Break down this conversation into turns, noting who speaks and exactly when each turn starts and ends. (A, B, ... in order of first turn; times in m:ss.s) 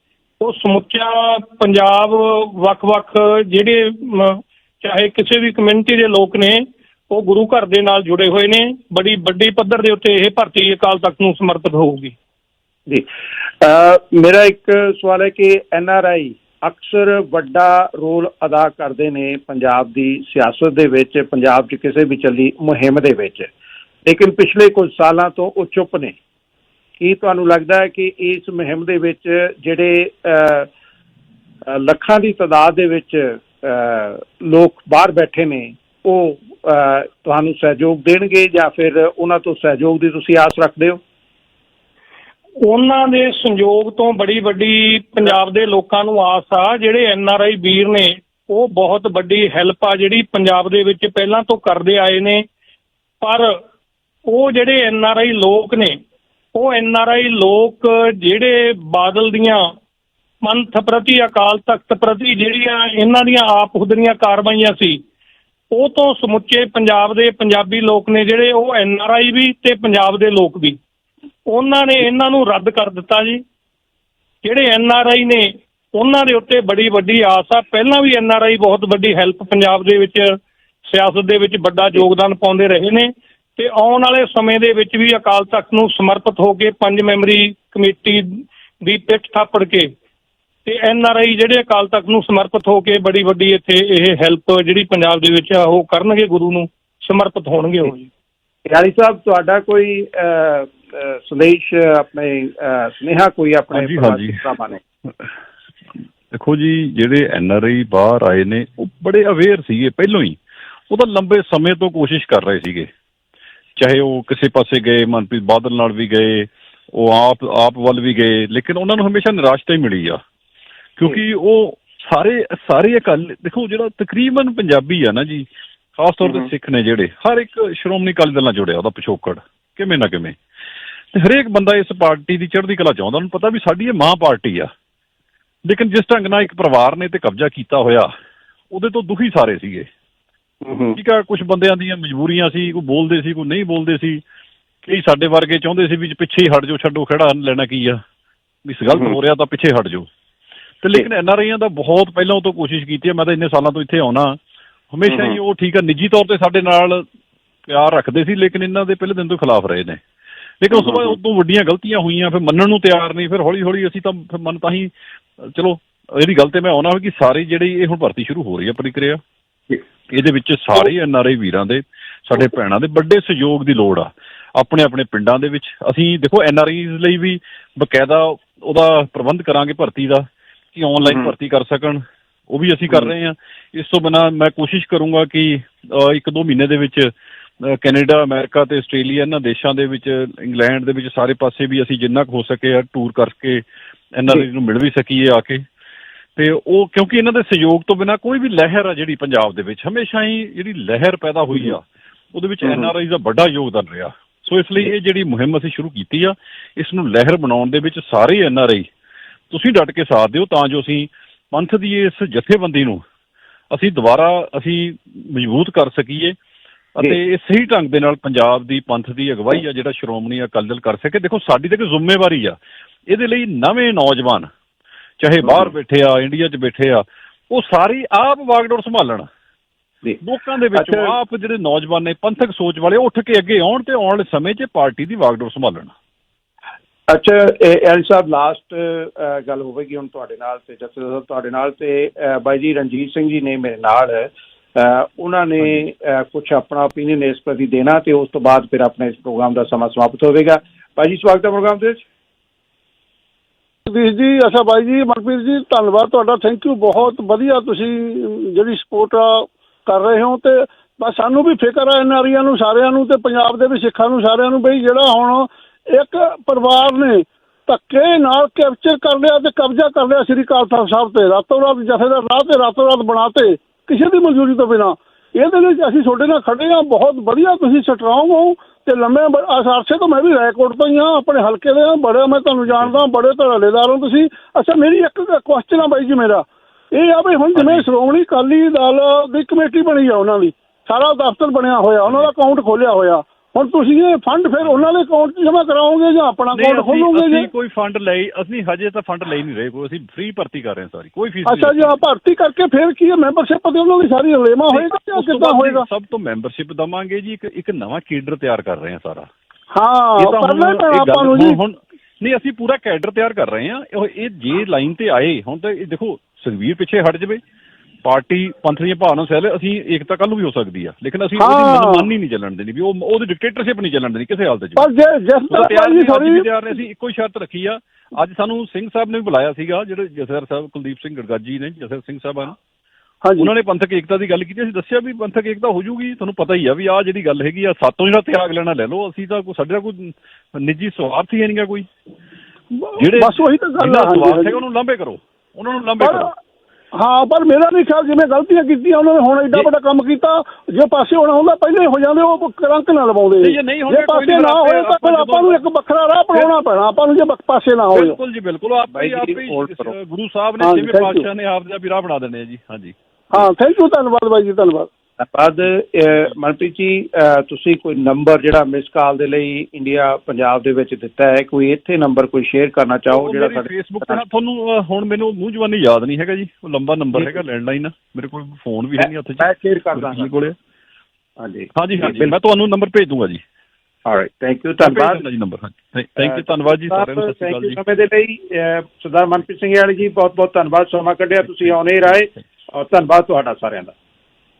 0:00.4-0:12.1 A
0:13.6-0:23.5 B
0:24.0-0:26.2 B
0:27.0-0:30.7 B
0:31.6-0:41.0 B
0:42.6-0:52.4 A
0:53.2-0:53.6 A
0:54.3-0:56.0 A
0:56.5-0:59.6 A
1:00.4-1:05.0 A
1:05.7-1:10.8 A
1:11.5-1:13.4 A
1:14.4-1:29.9 A
1:30.6-1:38.0 A
1:38.7-1:44.8 B
1:43.7-1:44.4 C
1:46.3-1:50.4 C
1:50.9-1:52.9 C
1:53.8-2:00.2 C
2:01.0-2:10.4 C
2:11.1-2:14.7 C
2:15.6-2:18.1 C
2:18.7-2:19.9 C
2:20.6-2:21.0 B
2:20.9-2:24.2 C
2:24.8-2:28.0 C
2:28.6-2:30.1 C
2:30.8-2:34.4 C
2:34.9-2:37.0 C
2:35.1-2:35.4 B
2:37.6-2:40.0 C
2:40.6-2:49.2 C
2:50.1-3:15.6 C
3:16.4-3:28.9 C
3:29.5-3:33.0 C
3:33.7-3:36.4 C
3:37.0-3:42.6 C
3:43.1-3:44.5 C
3:45.2-3:49.3 C
3:50.2-3:55.9 C
3:50.7-3:51.1 B
3:57.1-4:12.0 B
4:13.8-4:57.5 D
4:42.7-4:43.0 C
4:47.5-4:47.9 C
4:52.0-4:52.3 C
4:56.5-5:02.0 C
5:01.4-5:05.8 D
5:04.7-5:09.3 C
5:09.7-5:11.6 D
5:10.2-5:17.4 C
5:18.0-5:24.8 C
5:21.4-5:22.1 D
5:24.8-5:26.4 D
5:25.5-5:32.6 C
5:33.2-5:33.5 D
5:33.4-5:41.9 C
5:42.7-5:44.6 D
5:42.9-5:46.3 C
5:46.0-5:46.4 D
5:47.0-5:58.2 D
5:53.4-5:55.6 C
5:57.9-6:03.5 C
5:58.9-5:59.9 B
6:00.6-6:01.2 D
6:03.3-6:04.9 D
6:05.2-6:14.2 B
6:13.1-6:20.6 C
6:19.0-6:20.3 B
6:21.4-6:22.3 B
6:21.7-6:23.4 C
6:24.0-6:25.2 B
6:24.8-6:27.8 C
6:26.2-6:33.9 B